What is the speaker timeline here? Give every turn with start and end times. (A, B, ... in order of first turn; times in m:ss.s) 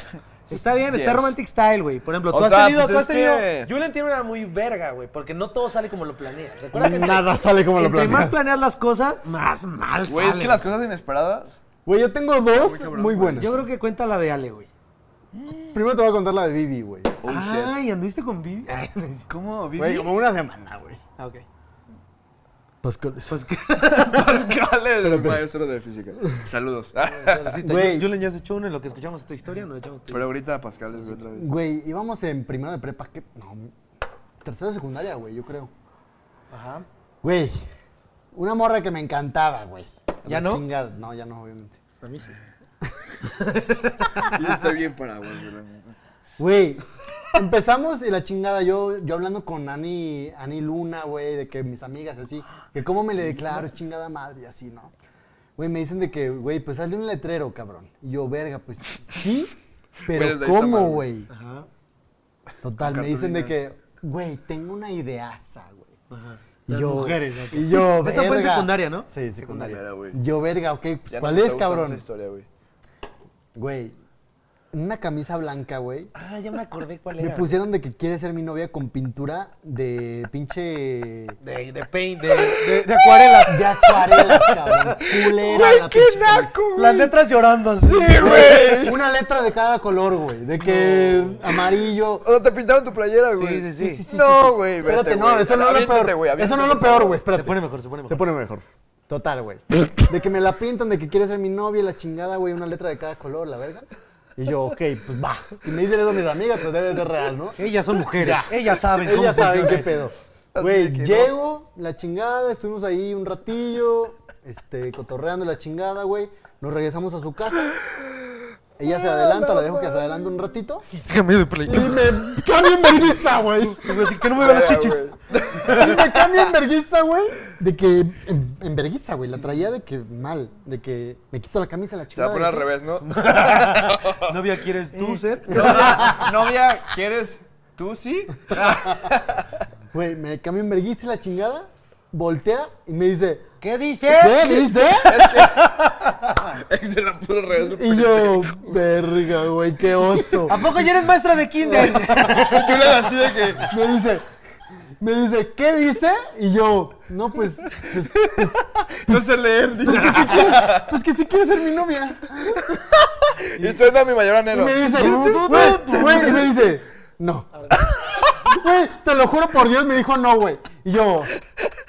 0:00.5-0:10.6 A
0:00.9-0:01.3 B
0:02.3-0:03.7 B
0:06.7-0:08.4 C
0:10.1-0:11.6 B
0:11.8-0:13.6 C
0:12.5-0:13.6 B
0:13.4-0:14.7 A
0:15.3-0:15.8 B
0:15.7-0:17.2 C
0:17.2-0:17.8 B
0:17.3-0:19.3 A
0:19.3-0:20.1 B
0:19.8-0:21.0 C
0:21.2-0:21.4 A
0:22.8-0:23.4 C
0:23.3-0:24.4 A
0:23.8-0:27.6 B
0:25.0-0:25.4 C
0:27.1-0:30.3 A
0:27.6-0:28.1 C
0:30.1-0:31.5 B
0:30.9-0:31.2 A
0:31.4-0:33.7 C
0:34.4-0:35.7 C
0:36.5-0:36.9 A
0:37.2-0:37.7 C
0:38.3-0:41.8 C
0:40.3-0:40.6 A
0:42.0-0:42.4 A
0:43.3-0:44.3 A
0:44.2-0:46.0 B
0:46.4-0:54.9 C
0:55.6-0:59.5 C
1:00.1-1:01.1 B
1:00.1-1:01.3 C
1:01.3-1:01.7 A
1:02.6-1:05.9 C
1:02.8-1:03.6 B
1:06.1-1:09.8 A
1:06.7-1:12.0 C
1:09.6-1:10.2 B
1:11.1-1:12.5 B
1:13.6-1:13.9 C
1:14.7-1:16.1 C
1:16.2-1:17.5 A
1:17.2-1:21.4 C
1:21.4-1:24.8 A
1:22.4-1:23.4 B
1:23.5-1:26.6 C
1:25.0-1:27.1 B
1:26.8-1:28.6 A
1:27.8-1:29.0 B
1:28.2-1:32.3 C
1:30.6-1:31.4 A
1:32.2-1:37.2 B
1:33.3-1:34.0 A
1:33.8-1:43.9 C
1:37.3-1:38.2 A
1:44.4-1:57.7 C
1:47.6-1:50.0 A
1:50.5-1:51.3 B
1:58.8-2:00.9 C
1:58.8-2:00.3 B
2:00.9-2:02.4 A
2:01.6-2:04.2 C
2:03.6-2:06.0 A
2:04.4-2:06.5 B
2:05.6-2:12.7 C
2:12.1-2:14.4 B
2:13.0-2:16.1 A
2:15.0-2:16.4 C
2:15.5-2:19.5 B
2:19.9-2:23.5 C
2:23.6-2:26.3 A
2:24.1-2:25.3 C
2:25.0-2:25.8 B
2:26.3-2:28.8 B
2:27.6-2:30.8 C
2:30.5-2:32.8 A
2:31.6-2:32.7 C
2:32.2-2:33.7 B
2:33.6-2:34.2 C
2:35.0-2:42.8 C
2:37.7-2:40.9 B
2:42.7-2:46.2 B
2:44.5-2:51.3 C
2:44.9-2:46.5 A
2:47.6-2:47.8 A